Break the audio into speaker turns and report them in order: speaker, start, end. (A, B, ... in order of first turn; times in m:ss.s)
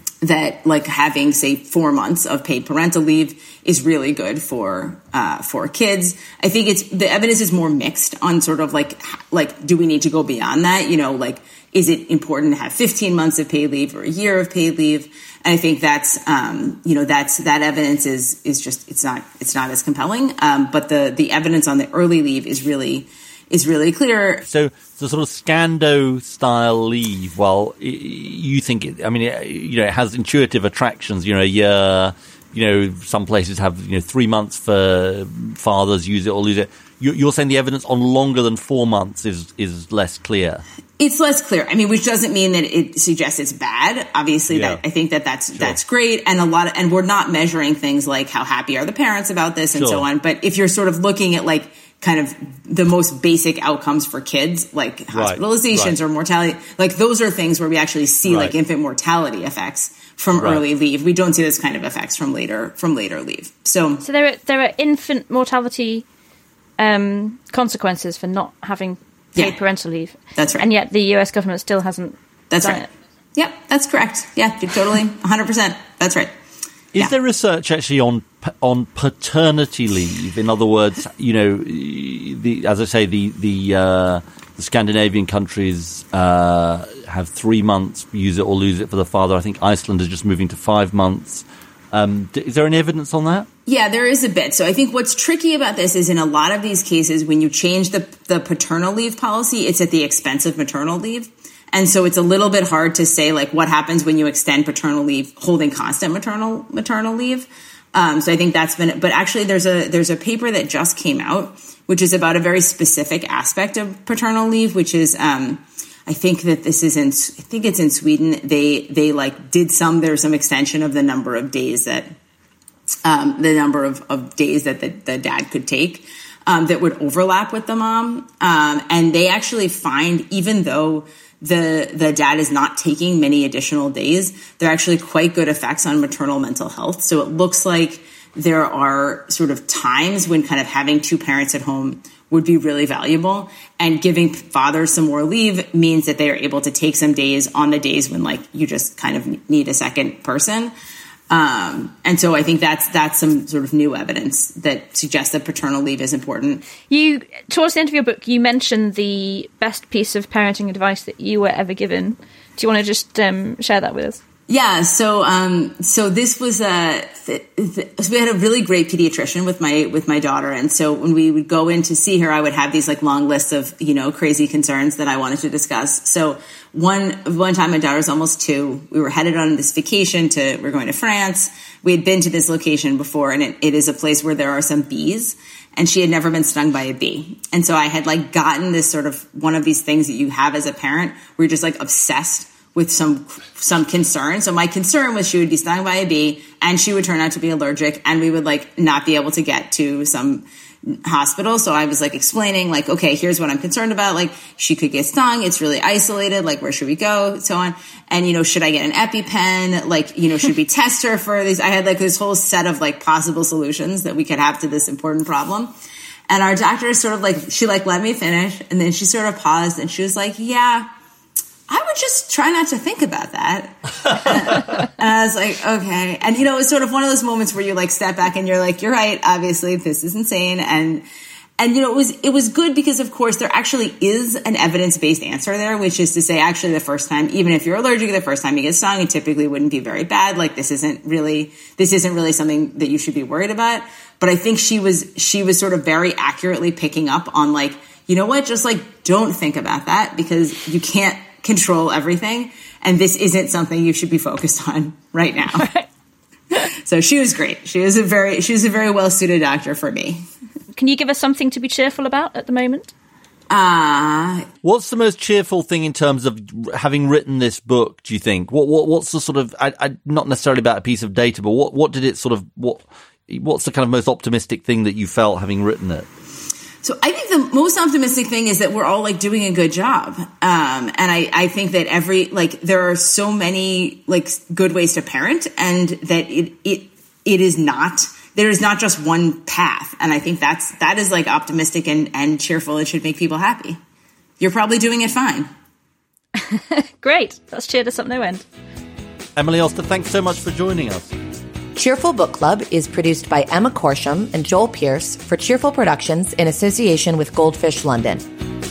0:00.2-0:24.4 A
0:24.5-0:40.6 B
0:41.0-1:04.0 A
0:44.5-0:44.8 B
0:49.8-0:50.1 B
0:55.1-0:56.0 B
0:58.2-0:58.6 B
1:00.3-1:00.6 B
1:04.0-1:06.0 C
1:06.8-1:12.9 C
1:10.4-1:10.7 A
1:12.5-1:16.3 A
1:16.9-1:33.5 B
1:33.7-2:02.2 A
2:03.0-2:30.7 A
2:31.3-2:36.7 A
2:36.9-2:44.2 C
2:44.5-3:35.7 A
3:36.3-3:40.9 A
3:41.7-3:51.0 A
3:51.6-4:15.7 A
4:15.5-4:15.9 C
4:16.8-4:20.2 A
4:20.7-4:22.9 C
4:23.5-4:24.5 A
4:24.6-4:36.1 B
4:36.8-4:53.8 A
4:54.4-4:55.5 A
4:56.4-4:58.4 C
4:59.4-5:01.1 B
5:01.8-5:08.2 D